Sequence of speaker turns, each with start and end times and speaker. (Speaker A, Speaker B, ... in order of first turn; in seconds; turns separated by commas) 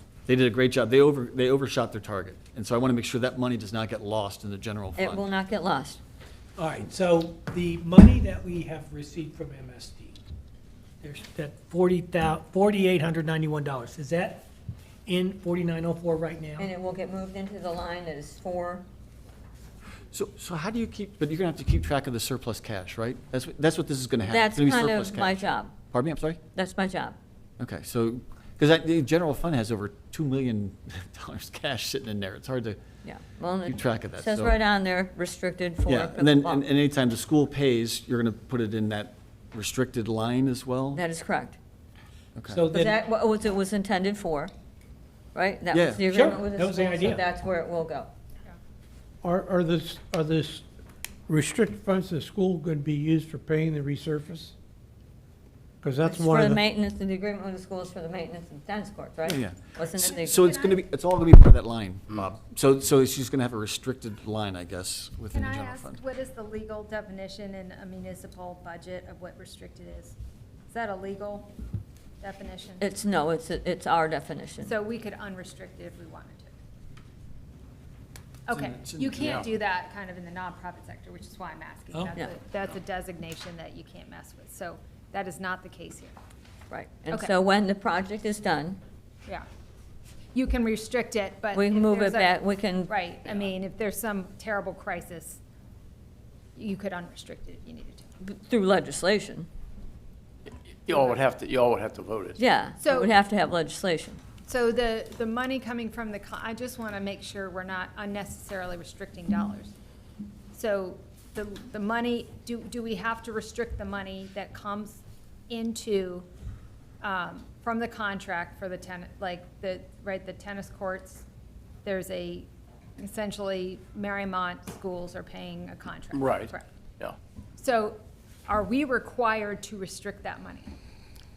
Speaker A: 0.2-5.2, Speaker B: 5.0-6.0, Speaker C: 6.6-10.2, Speaker C: 11.0-14.4, Speaker C: 15.1-16.7, Speaker B: 16.6-18.8, Speaker A: 20.1-26.4, Speaker B: 24.2-25.7, Speaker B: 26.5-27.1, Speaker A: 27.6-32.8, Speaker B: 33.0-36.6, Speaker A: 33.6-34.6, Speaker A: 35.9-41.0, Speaker B: 40.9-41.6, Speaker A: 42.4-42.6, Speaker C: 42.5-43.0, Speaker B: 42.7-44.5, Speaker B: 45.3-48.1, Speaker A: 45.7-46.0, Speaker C: 46.1-47.2, Speaker D: 49.2-50.6, Speaker D: 51.3-54.5, Speaker D: 55.8-56.6, Speaker B: 56.0-60.5, Speaker A: 59.2-66.0, Speaker E: 60.1-60.8, Speaker E: 65.3-70.1, Speaker E: 70.7-71.5, Speaker E: 72.2-72.8, Speaker B: 72.8-74.7, Speaker E: 74.6-76.5, Speaker E: 78.5-86.1, Speaker A: 78.6-79.3, Speaker F: 78.9-79.5, Speaker B: 86.7-88.8, Speaker E: 90.3-95.4, Speaker B: 91.5-93.5, Speaker E: 96.5-98.0, Speaker B: 98.2-99.5, Speaker F: 100.7-102.4, Speaker E: 100.9-101.2, Speaker B: 102.4-104.2, Speaker E: 102.8-103.2, Speaker E: 104.5-109.7, Speaker E: 110.5-116.3, Speaker E: 117.0-121.2, Speaker E: 121.8-126.7, Speaker F: 126.1-127.2, Speaker E: 127.6-130.7